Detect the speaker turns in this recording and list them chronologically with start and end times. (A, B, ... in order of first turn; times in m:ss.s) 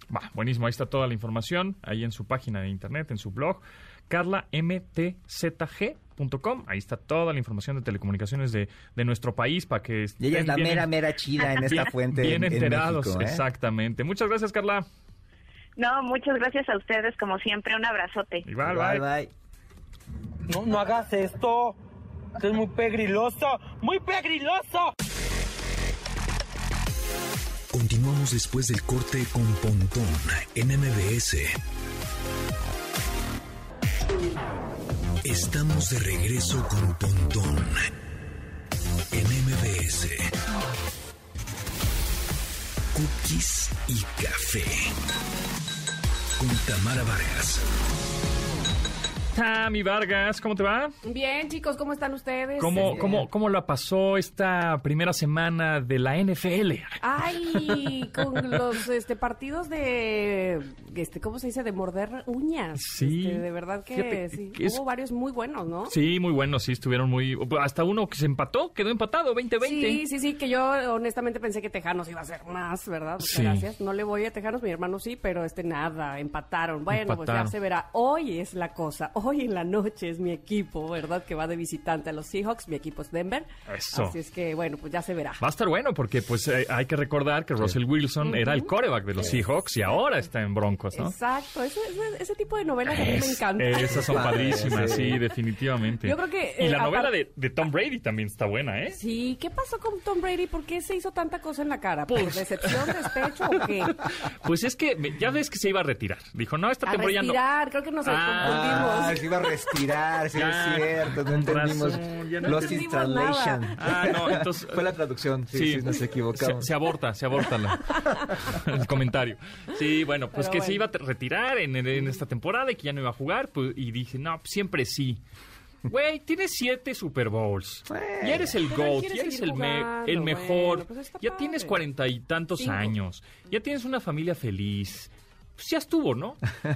0:00.1-0:10.9 A
0:10.2-0:13.4 B
0:11.5-0:14.9 A
0:15.8-0:18.4 C
0:18.4-0:19.0 A
0:18.6-0:19.3 B
0:20.5-0:21.8 D
0:22.4-0:24.9 D
0:27.7-0:31.6 E
0:35.2-0:37.9 E
0:39.1-0:40.3 E
0:42.9-0:45.0 E
0:46.4-0:47.6 E
0:49.3-0:50.9 A
0:51.0-0:53.2 F
0:52.6-0:58.6 A
0:52.8-0:53.2 B
0:57.0-1:05.9 F
1:02.8-1:04.8 A
1:05.9-1:10.0 A
1:09.6-1:25.4 F
1:13.2-1:13.6 A
1:16.9-1:17.5 A
1:23.7-1:24.2 A
1:25.4-1:31.1 A
1:28.2-1:29.9 F
1:30.9-1:35.2 F
1:33.0-1:39.0 A
1:33.8-1:35.2 B
1:36.0-1:37.1 F
1:38.9-1:44.0 F
1:42.1-1:47.4 A
1:46.9-1:49.3 F
1:48.0-1:49.1 A
1:48.4-1:56.7 B
1:50.3-1:52.9 A
1:52.4-1:54.1 F
1:53.8-1:54.8 A
1:55.5-2:05.2 A
1:57.9-1:58.4 F
2:00.3-2:00.8 F
2:05.9-2:16.4 A
2:07.9-2:08.6 B
2:08.6-2:11.8 F
2:12.6-2:12.9 F